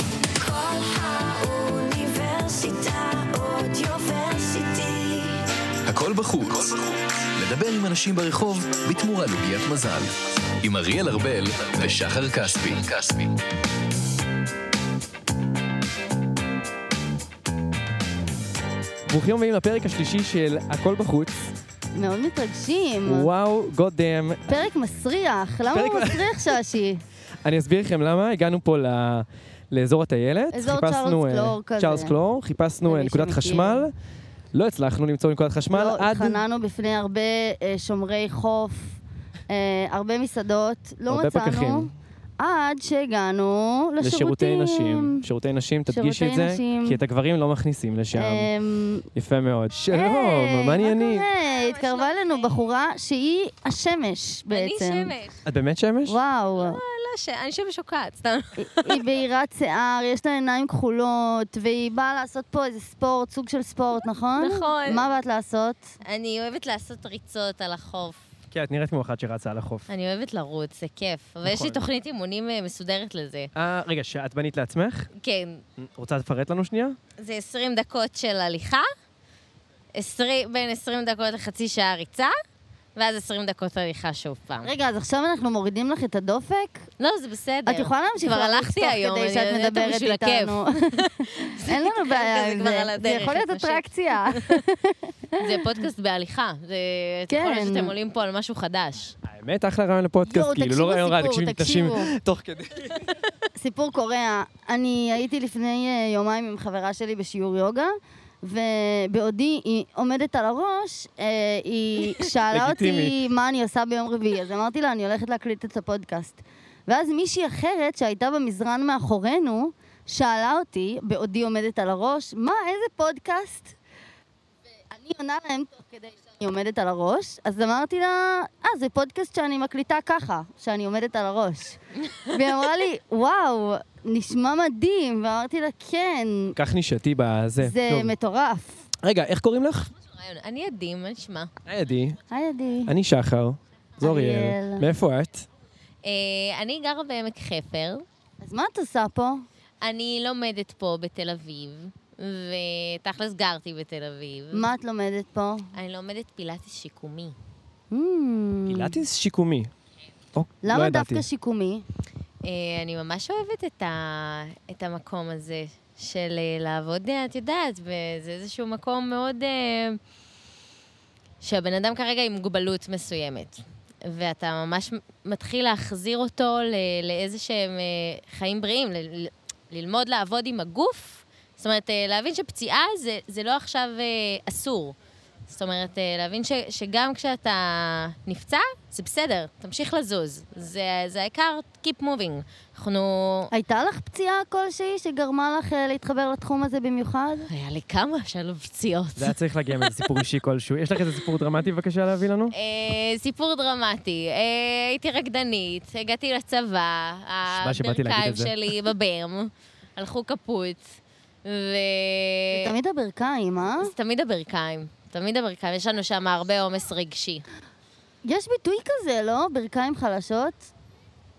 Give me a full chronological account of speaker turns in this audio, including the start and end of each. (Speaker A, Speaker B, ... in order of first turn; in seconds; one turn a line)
Speaker A: 0.4-5.4
Speaker B: 5.9-10.1
Speaker B: 10.6-13.3
Speaker C: 19.1-21.5
Speaker D: 21.9-23.3
Speaker C: 23.1-24.5
Speaker D: 24.5-27.0
Speaker C: 25.7-26.4
Speaker C: 27.4-33.9
Speaker D: 30.5-32.1
Speaker D: 32.9-33.9
Speaker C: 34.5-36.4
Speaker D: 35.7-39.0
Speaker D: 39.5-45.2
Speaker C: 41.1-41.9
Speaker C: 44.0-48.5
Speaker D: 45.9-47.0
Speaker D: 48.1-49.1
Speaker C: 49.1-51.2
Speaker D: 49.9-55.1
Speaker E: 51.4-52.5
Speaker E: 54.5-55.4
Speaker C: 55.5-56.2
Speaker D: 56.1-56.8
Speaker E: 56.6-59.0
Speaker D: 58.6-65.9
Speaker E: 64.4-65.0
Speaker E: 66.0-68.2
Speaker C: 68.5-69.9
Speaker E: 69.9-73.5
Speaker C: 71.4-71.8
Speaker C: 73.5-75.1
Speaker E: 75.2-75.6
Speaker C: 75.8-77.0
Speaker E: 77.2-78.9
Speaker E: 80.0-82.3
Speaker E: 83.0-84.7
Speaker D: 84.7-86.9
Speaker E: 87.0-93.9
Speaker D: 87.7-95.6
Speaker E: 95.4-99.2
Speaker D: 97.3-97.9
Speaker C: 99.2-103.1
Speaker D: 100.2-102.1
Speaker D: 103.6-123.8
Speaker C: 112.5-113.2
Speaker D: 124.9-136.6
Speaker C: 136.6-138.1
Speaker D: 137.6-138.8
Speaker C: 139.0-139.9
Speaker E: 140.1-141.5
Speaker C: 141.7-142.2
Speaker D: 142.3-142.9
Speaker C: 142.9-145.5
Speaker D: 144.0-144.9
Speaker E: 146.0-148.1
Speaker D: 148.4-149.4
Speaker E: 149.8-154.7
Speaker D: 154.5-155.7
Speaker E: 155.7-157.3
Speaker D: 157.9-159.0
Speaker C: 158.7-159.7
Speaker C: 160.3-161.3
Speaker D: 160.6-161.8
Speaker E: 162.4-170.0
Speaker E: 171.4-184.9
Speaker E: 185.5-193.5
Speaker D: 193.5-197.5
Speaker E: 197.5-199.4
Speaker C: 199.2-202.5
Speaker E: 202.5-212.7
Speaker C: 207.5-208.5
Speaker D: 212.5-213.9
Speaker E: 213.8-217.4
Speaker D: 218.2-220.7